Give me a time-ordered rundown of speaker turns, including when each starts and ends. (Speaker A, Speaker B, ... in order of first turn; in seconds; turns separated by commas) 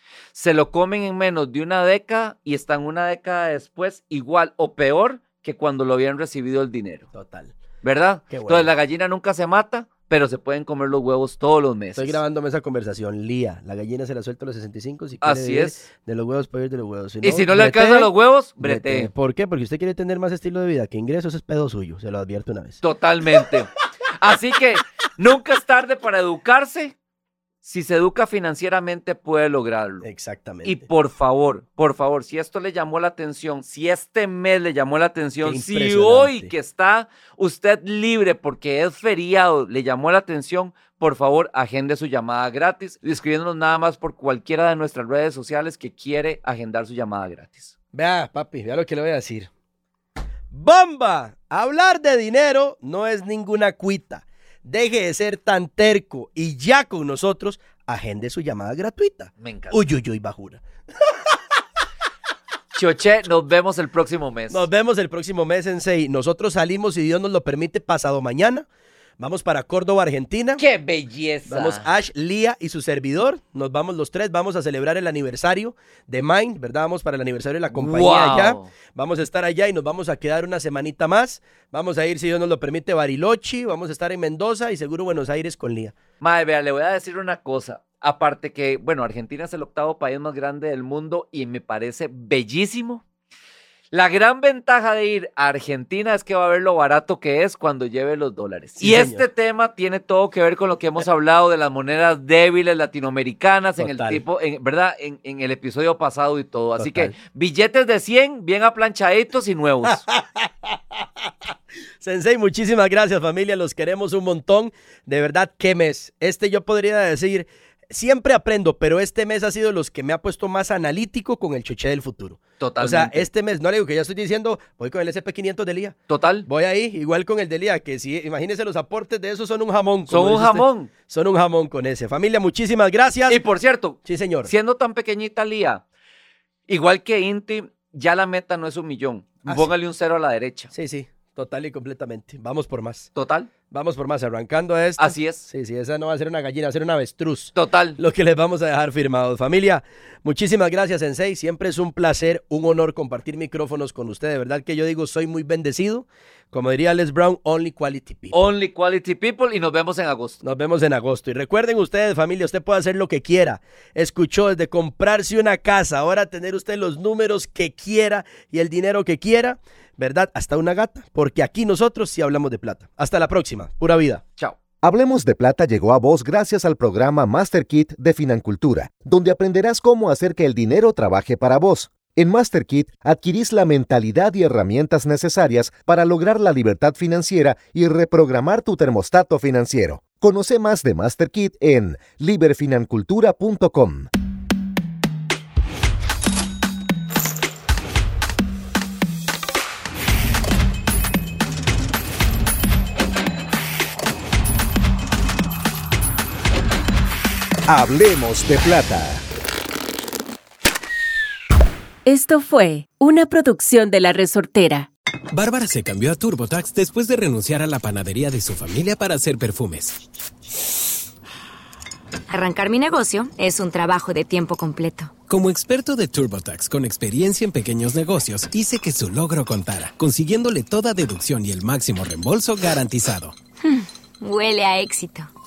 Speaker A: 0.3-7.1, Speaker B: 7.1-7.5, Speaker A: 7.8-12.2, Speaker B: 8.3-8.7, Speaker B: 12.0-22.8, Speaker A: 15.2-15.8, Speaker A: 17.2-19.1, Speaker A: 22.8-27.0, Speaker A: 27.6-30.1, Speaker B: 30.0-30.9, Speaker A: 30.6-47.7, Speaker B: 35.4-36.5, Speaker B: 47.9-49.5, Speaker B: 50.5-61.1, Speaker A: 59.4-59.8, Speaker A: 62.7-64.7, Speaker B: 64.5-68.7, Speaker B: 69.2-70.6, Speaker A: 70.6-71.9, Speaker B: 71.5-86.0, Speaker A: 77.7-78.7, Speaker A: 86.2-93.0, Speaker A: 93.9-110.0, Speaker B: 98.8-99.3, Speaker B: 103.8-104.2, Speaker B: 106.8-107.1, Speaker B: 109.8-111.3, Speaker B: 112.0-133.4, Speaker A: 122.6-123.3, Speaker A: 126.1-126.5, Speaker A: 130.1-130.9, Speaker A: 133.3-135.8, Speaker B: 134.0-134.5, Speaker A: 136.7-140.7, Speaker B: 139.4-139.7, Speaker B: 140.7-143.1, Speaker A: 143.2-143.5, Speaker B: 143.7-158.5, Speaker A: 145.0-145.5, Speaker A: 147.6-148.0, Speaker A: 158.3-160.4, Speaker B: 160.4-174.2, Speaker C: 174.8-194.1, Speaker C: 207.7-209.2, Speaker D: 212.1-214.9, Speaker E: 215.3-220.0, Speaker F: 222.3-225.1, Speaker E: 225.3-233.4, Speaker F: 233.6-235.3